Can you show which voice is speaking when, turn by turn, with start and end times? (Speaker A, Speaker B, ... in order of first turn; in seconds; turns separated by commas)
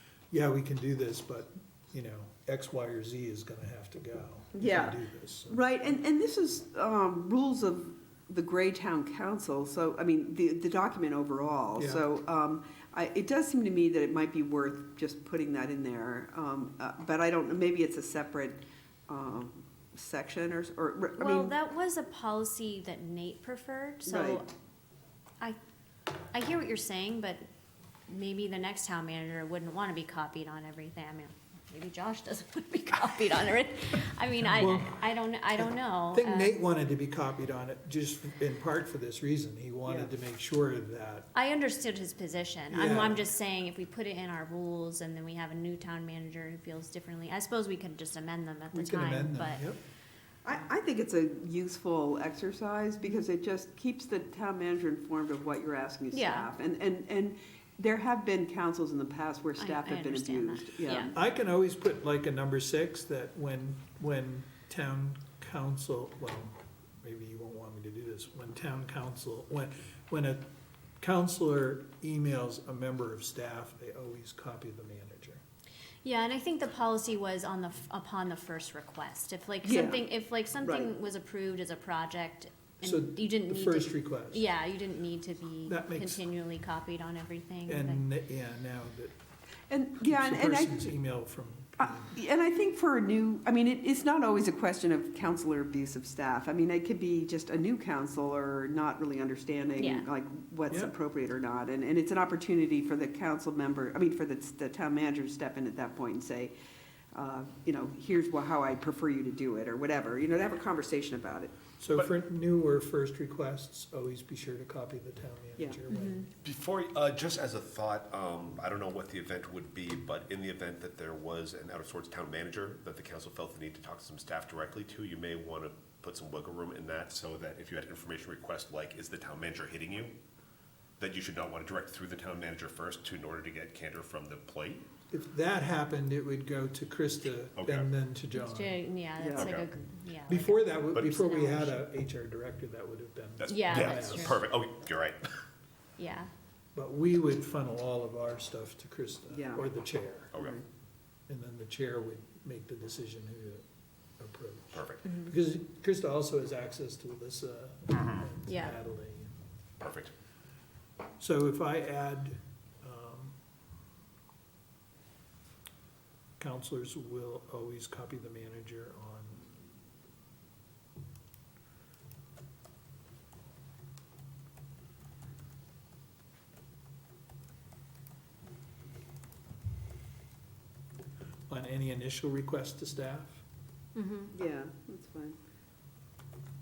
Speaker A: 0.3-5.7, Speaker B: 4.5-21.5, Speaker A: 11.8-12.0, Speaker C: 21.2-24.5, Speaker B: 24.1-24.4, Speaker C: 26.3-27.4, Speaker C: 28.1-36.5, Speaker A: 34.4-35.0, Speaker A: 35.5-41.3, Speaker B: 39.8-40.1, Speaker C: 41.3-49.6, Speaker A: 42.7-43.2, Speaker A: 48.7-49.8, Speaker B: 50.4-61.1, Speaker C: 56.1-56.5, Speaker C: 59.6-61.1, Speaker A: 61.1-70.5, Speaker A: 71.0-75.4, Speaker C: 76.0-88.0, Speaker B: 79.6-80.0, Speaker B: 80.6-80.9, Speaker A: 82.8-84.4, Speaker A: 85.7-86.2, Speaker A: 87.7-89.2, Speaker B: 89.7-90.8, Speaker A: 90.0-92.2, Speaker B: 91.8-106.5, Speaker C: 99.8-100.0, Speaker B: 107.1-111.5, Speaker A: 111.8-116.3, Speaker C: 115.9-116.2, Speaker D: 116.4-130.2, Speaker D: 131.0-134.9, Speaker A: 135.1-138.8, Speaker D: 137.6-137.9, Speaker C: 138.3-141.8, Speaker B: 139.2-139.5, Speaker D: 139.3-139.7, Speaker A: 140.3-144.4, Speaker D: 143.4-145.2, Speaker C: 143.4-144.4, Speaker C: 146.0-146.3, Speaker A: 146.7-150.3, Speaker B: 149.3-149.7, Speaker D: 150.3-150.6, Speaker B: 150.3-150.6, Speaker A: 151.3-153.7, Speaker A: 154.2-159.3, Speaker D: 154.7-155.0, Speaker D: 157.9-158.3, Speaker C: 158.5-158.8, Speaker D: 159.8-160.1, Speaker A: 161.2-163.4, Speaker A: 166.4-169.4, Speaker A: 181.5-183.4, Speaker C: 183.9-184.3, Speaker B: 184.3-185.4